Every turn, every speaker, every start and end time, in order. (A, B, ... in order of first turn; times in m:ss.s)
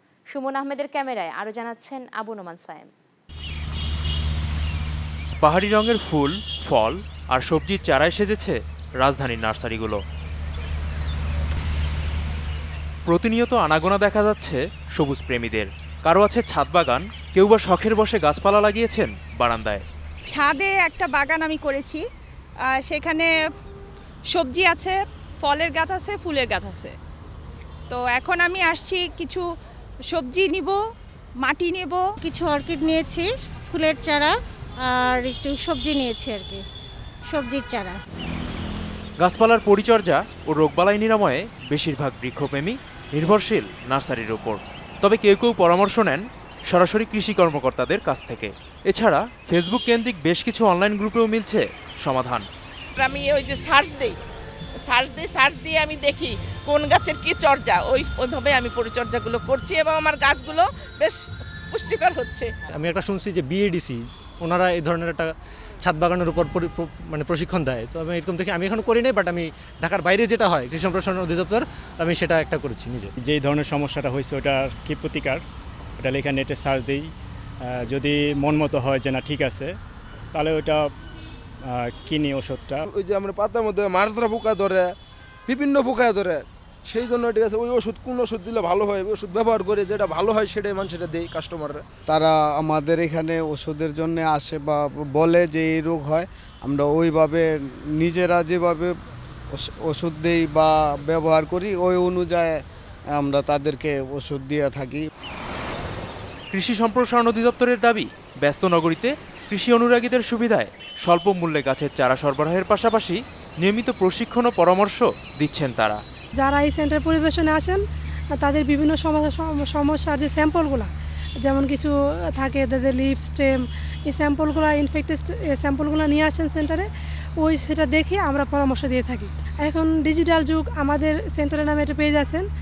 0:00.3-0:02.9 A
0:05.4-0:10.0 B
0:13.1-0:19.8 B
0:20.2-0:22.0 C
0:22.7-0:23.3 C
0:24.3-0:26.9 C
0:27.9-0:29.4 C
0:30.1-0:30.8 C
0:31.4-0:32.1 C
0:32.2-0:36.6 D
0:37.3-0:38.0 D
0:39.2-0:52.4 B
0:53.0-0:54.2 E
0:54.8-1:02.5 E
1:02.7-1:13.1 F
1:13.2-1:15.4 G
1:16.0-1:17.1 G
1:17.6-1:19.7 G
1:20.3-1:20.9 G
1:21.7-1:22.8 G
1:22.9-1:24.9 H
1:25.5-1:31.8 H
1:32.1-1:38.9 I
1:39.5-1:42.6 I
1:43.1-1:45.0 I
1:46.5-1:56.0 B
1:56.4-1:57.8 J
1:58.3-2:00.9 J
2:01.4-2:06.9 J
2:07.4-2:12.4 J